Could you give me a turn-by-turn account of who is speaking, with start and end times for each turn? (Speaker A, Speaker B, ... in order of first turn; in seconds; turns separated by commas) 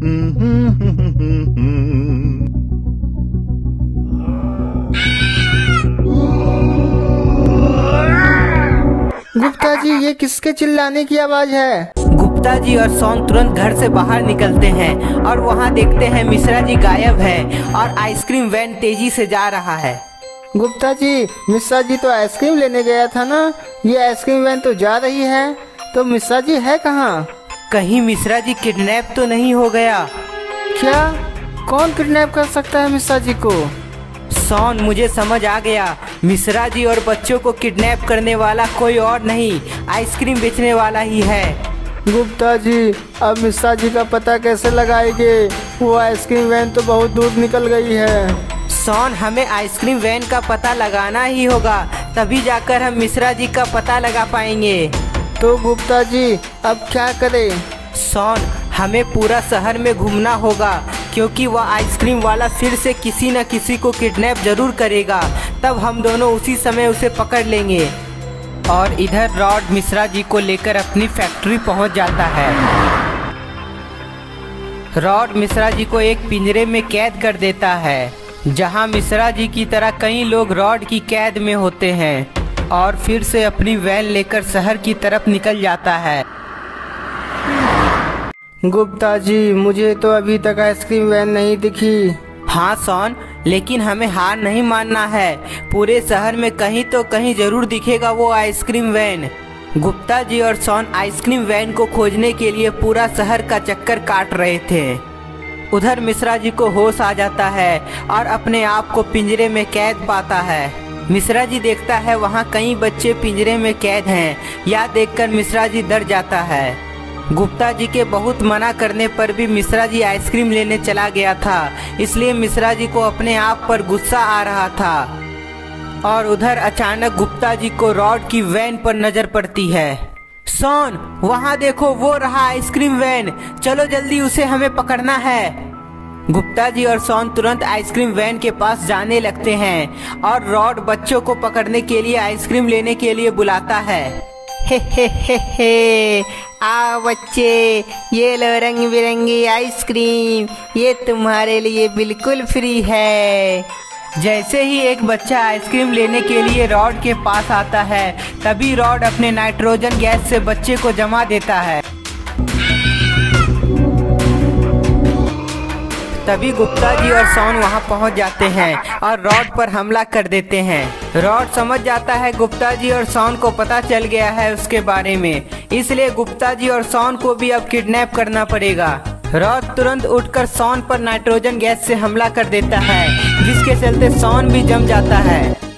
Speaker A: 9.3-11.9, Speaker B: 12.1-20.0, Speaker A: 20.5-27.3, Speaker B: 27.7-30.1, Speaker A: 30.7-33.7, Speaker B: 34.3-41.6, Speaker A: 42.1-48.4, Speaker B: 48.7-55.0, Speaker A: 55.4-57.6, Speaker B: 57.9-68.0, Speaker B: 68.7-72.6, Speaker B: 74.9-86.2, Speaker A: 88.7-92.2, Speaker B: 92.5-105.0, Speaker B: 105.7-116.8, Speaker B: 117.3-125.1, Speaker B: 126.0-135.7, Speaker B: 136.3-161.8, Speaker B: 166.2-185.5